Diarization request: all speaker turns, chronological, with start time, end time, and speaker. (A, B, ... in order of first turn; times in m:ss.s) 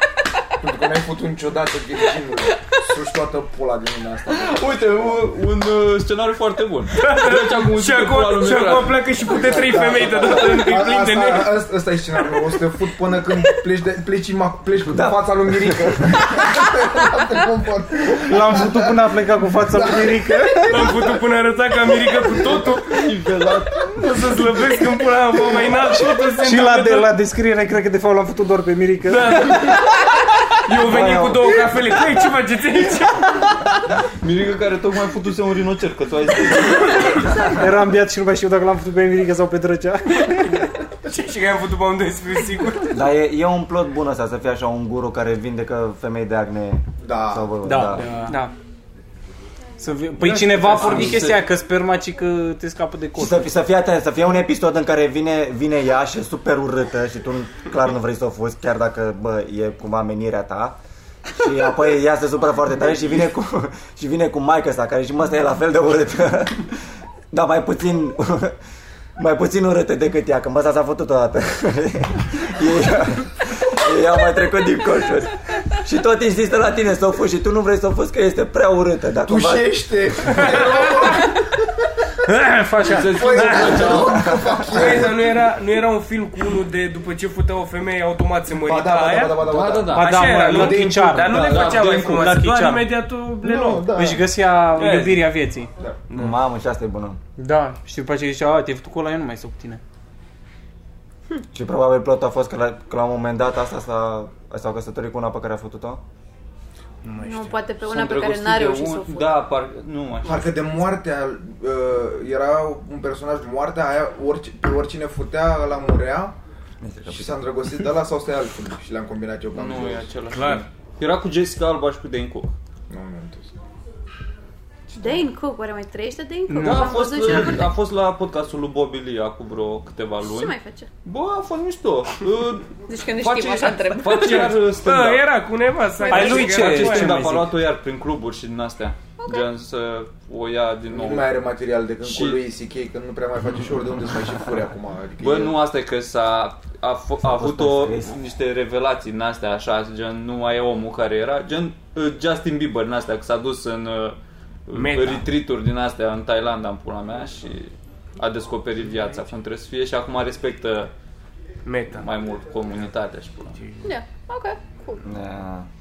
0:00.6-0:05.3 A
0:04.3-0:09.0 B
0:06.9-0:11.7 C
0:09.2-0:21.2 A
0:14.8-0:16.2 D
0:18.2-0:20.9 E
0:20.7-0:23.1 C
0:21.9-0:22.7 A
0:22.8-0:24.1 B
0:23.9-0:27.2 C
0:26.4-0:30.2 E
0:29.1-0:33.5 C
0:30.8-0:31.6 D
0:34.0-0:37.5 B
0:37.1-0:40.7 E
0:41.0-0:43.0 C
0:42.9-0:48.0 D
0:47.0-0:47.8 A
0:47.6-0:48.5 E
0:49.8-0:53.6 E
0:50.2-0:51.5 B
0:53.2-1:00.8 D
1:01.3-1:06.8 D
1:07.3-1:08.6 D
1:09.2-1:20.4 D
1:19.2-1:21.6 A
1:20.6-1:21.0 C
1:22.2-1:24.0 E
1:22.8-1:24.8 B
1:22.9-1:25.4 A
1:24.2-1:24.5 D
1:24.7-1:33.9 C
1:28.6-1:31.5 A
1:29.4-1:32.3 B
1:29.9-1:32.9 E
1:33.4-1:34.3 A
1:33.9-1:35.7 E
1:34.8-1:35.3 C
1:36.1-1:36.4 C
1:36.1-1:37.2 D
1:37.4-1:39.8 E
1:41.5-1:46.0 D
1:47.2-1:49.3 F
1:47.8-1:50.5 B
1:50.2-1:56.4 A
1:56.8-1:57.5 D
1:57.1-2:00.1 A
1:59.5-2:02.5 B
2:00.3-2:00.6 C
2:02.9-2:03.5 A
2:04.9-2:07.7 F
2:06.5-2:07.0 E
2:06.6-2:15.2 B
2:10.2-2:10.9 F
2:12.9-2:14.6 F
2:14.1-2:17.3 C
2:16.0-2:16.7 F
2:16.1-2:17.5 E
2:16.2-2:21.3 B
2:19.2-2:19.5 F
2:20.9-2:25.6 A
2:22.0-2:22.4 B
2:25.2-2:40.9 B
2:27.2-2:28.1 D
2:34.7-2:35.2 C
2:41.6-2:42.0 C
2:41.9-2:43.6 B
2:43.5-2:43.9 C
2:43.8-2:45.0 F
2:45.0-2:45.7 D